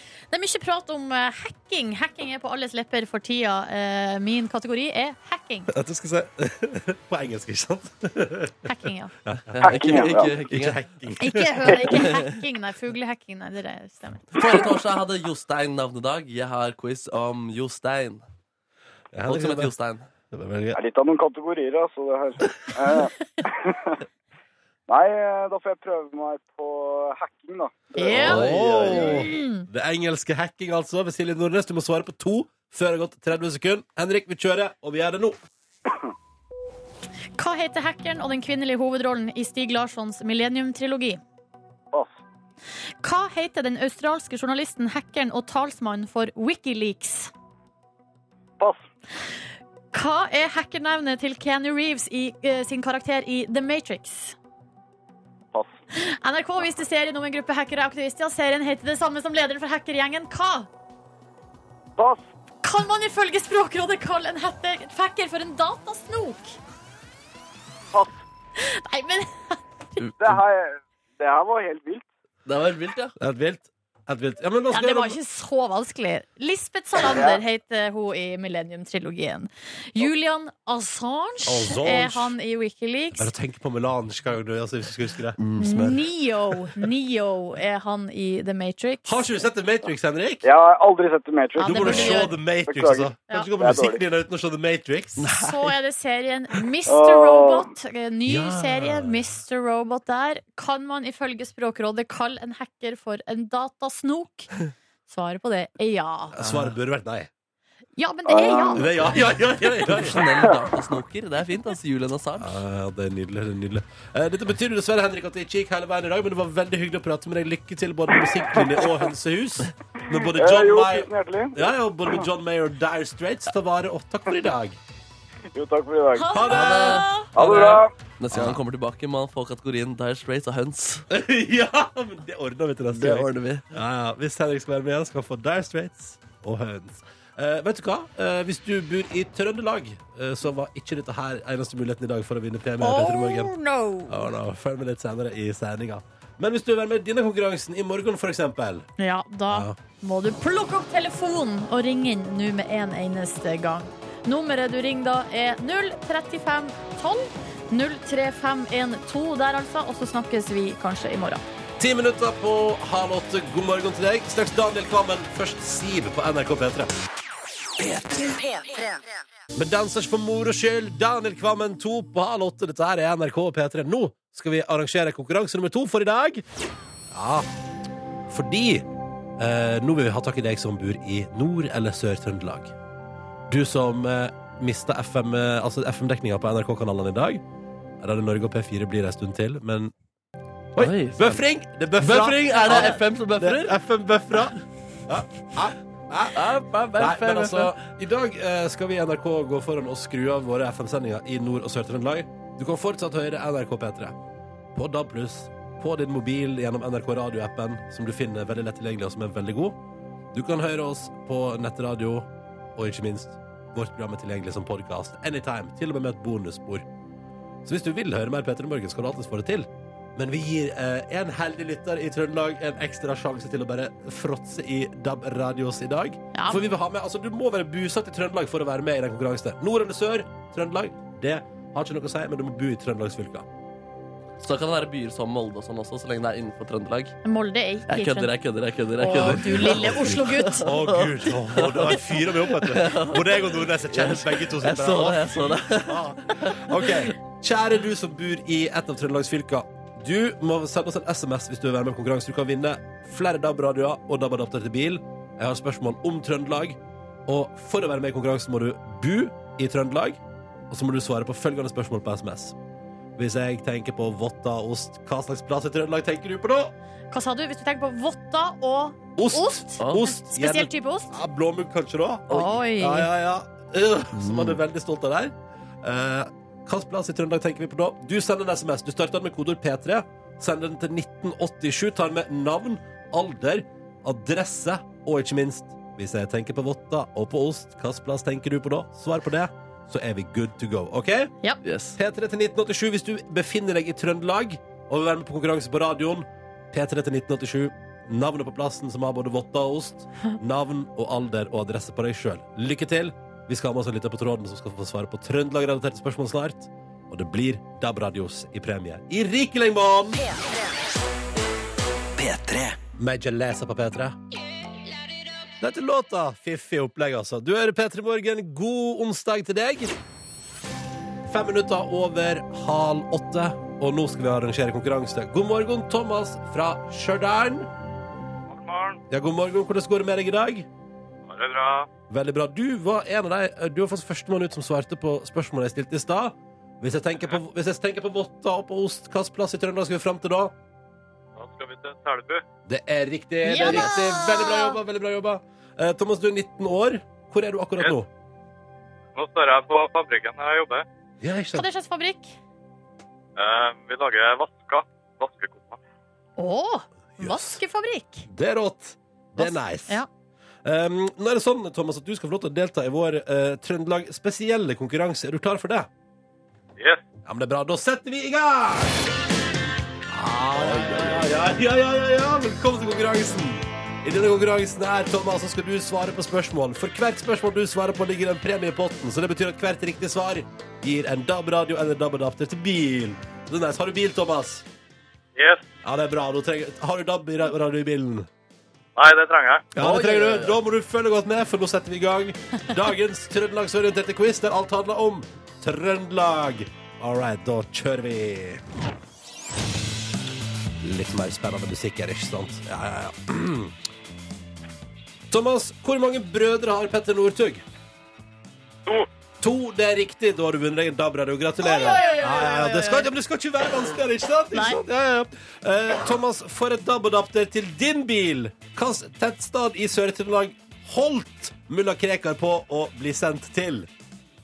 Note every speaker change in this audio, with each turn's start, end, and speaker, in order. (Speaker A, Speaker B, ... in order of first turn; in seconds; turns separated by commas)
Speaker A: 0.3-5.7, Speaker B: 5.7-8.7, Speaker A: 8.7-9.1, Speaker B: 9.2-12.0, Speaker C: 9.5-10.8, Speaker D: 9.6-10.3, Speaker A: 11.2-14.4, Speaker C: 14.4-18.2, Speaker B: 19.1-19.7, Speaker C: 19.3-20.1, Speaker B: 20.3-20.8, Speaker D: 20.8-24.0, Speaker D: 24.9-29.3, Speaker A: 28.0-29.7, Speaker B: 28.1-35.4, Speaker C: 28.3-28.7, Speaker A: 37.4-41.2, Speaker A: 43.0-47.3, Speaker A: 49.9-54.4, Speaker A: 55.9-60.7, Speaker D: 62.0-62.2, Speaker A: 62.6-66.6, Speaker A: 68.6-70.0, Speaker D: 70.2-72.1, Speaker C: 72.5-73.2, Speaker B: 73.2-75.2, Speaker A: 74.7-83.3, Speaker D: 77.0-77.4, Speaker B: 81.4-82.3, Speaker B: 83.2-86.0, Speaker A: 85.6-89.5, Speaker B: 89.1-90.5, Speaker D: 90.4-94.0, Speaker A: 91.6-92.3, Speaker B: 91.6-95.3, Speaker C: 95.2-95.7, Speaker A: 95.3-104.5, Speaker D: 96.9-97.7, Speaker B: 98.3-99.2, Speaker A: 105.1-106.4, Speaker B: 106.4-107.3, Speaker A: 108.0-109.1, Speaker D: 108.3-109.0, Speaker B: 108.8-110.2, Speaker C: 109.8-112.6, Speaker B: 112.4-124.8, Speaker D: 118.5-118.8, Speaker D: 120.3-122.2, Speaker D: 125.5-126.4, Speaker A: 126.2-127.3, Speaker B: 126.3-127.0, Speaker C: 126.5-131.0, Speaker D: 127.3-127.9, Speaker B: 128.3-128.6, Speaker B: 131.1-143.5, Speaker C: 132.9-133.7, Speaker A: 142.8-144.3, Speaker B: 144.1-148.9, Speaker A: 149.0-161.4, Speaker B: 149.5-149.8, Speaker B: 161.8-166.9, Speaker E: 167.8-169.1, Speaker B: 169.6-176.4, Speaker B: 177.1-177.5, Speaker B: 178.3-178.9, Speaker B: 179.4-182.7, Speaker B: 183.5-187.4, Speaker B: 188.0-189.9, Speaker B: 190.8-194.6, Speaker C: 190.8-191.4, Speaker C: 192.0-193.8, Speaker B: 195.1-204.2, Speaker C: 196.3-197.8, Speaker B: 204.8-209.8, Speaker B: 210.3-216.8, Speaker B: 217.7-233.5, Speaker A: 226.3-226.6, Speaker C: 234.4-237.2, Speaker A: 237.2-238.3, Speaker C: 237.9-246.9, Speaker A: 239.0-240.7, Speaker B: 239.1-260.2, Speaker B: 260.7-262.6, Speaker B: 263.2-266.7, Speaker A: 267.1-271.1, Speaker B: 269.2-291.3, Speaker C: 269.8-270.1, Speaker A: 272.3-273.1, Speaker C: 274.1-274.6, Speaker C: 291.6-292.0, Speaker B: 292.0-310.2, Speaker E: 310.2-310.6, Speaker E: 312.2-312.8, Speaker B: 312.9-314.2, Speaker B: 315.6-320.0, Speaker B: 321.3-327.7, Speaker F: 328.5-329.0, Speaker B: 329.1-330.7, Speaker F: 331.3-331.9, Speaker B: 332.1-340.5, Speaker F: 341.4-342.4, Speaker B: 342.7-348.1, Speaker A: 343.4-344.8, Speaker C: 343.6-343.9, Speaker F: 349.1-350.9, Speaker B: 351.2-351.7, Speaker A: 351.5-352.4, Speaker F: 353.4-355.8, Speaker A: 356.4-358.3, Speaker B: 357.2-357.6, Speaker B: 358.3-360.0, Speaker A: 359.4-360.1, Speaker B: 360.6-365.9, Speaker B: 367.3-369.0, Speaker B: 370.1-384.6, Speaker C: 370.6-371.2, Speaker F: 385.4-385.6, Speaker B: 385.8-388.3, Speaker F: 389.0-389.7, Speaker B: 389.8-398.6, Speaker C: 389.8-390.6, Speaker B: 400.8-403.7, Speaker B: 405.3-407.6, Speaker B: 409.4-423.9, Speaker A: 411.6-413.1, Speaker A: 414.5-414.8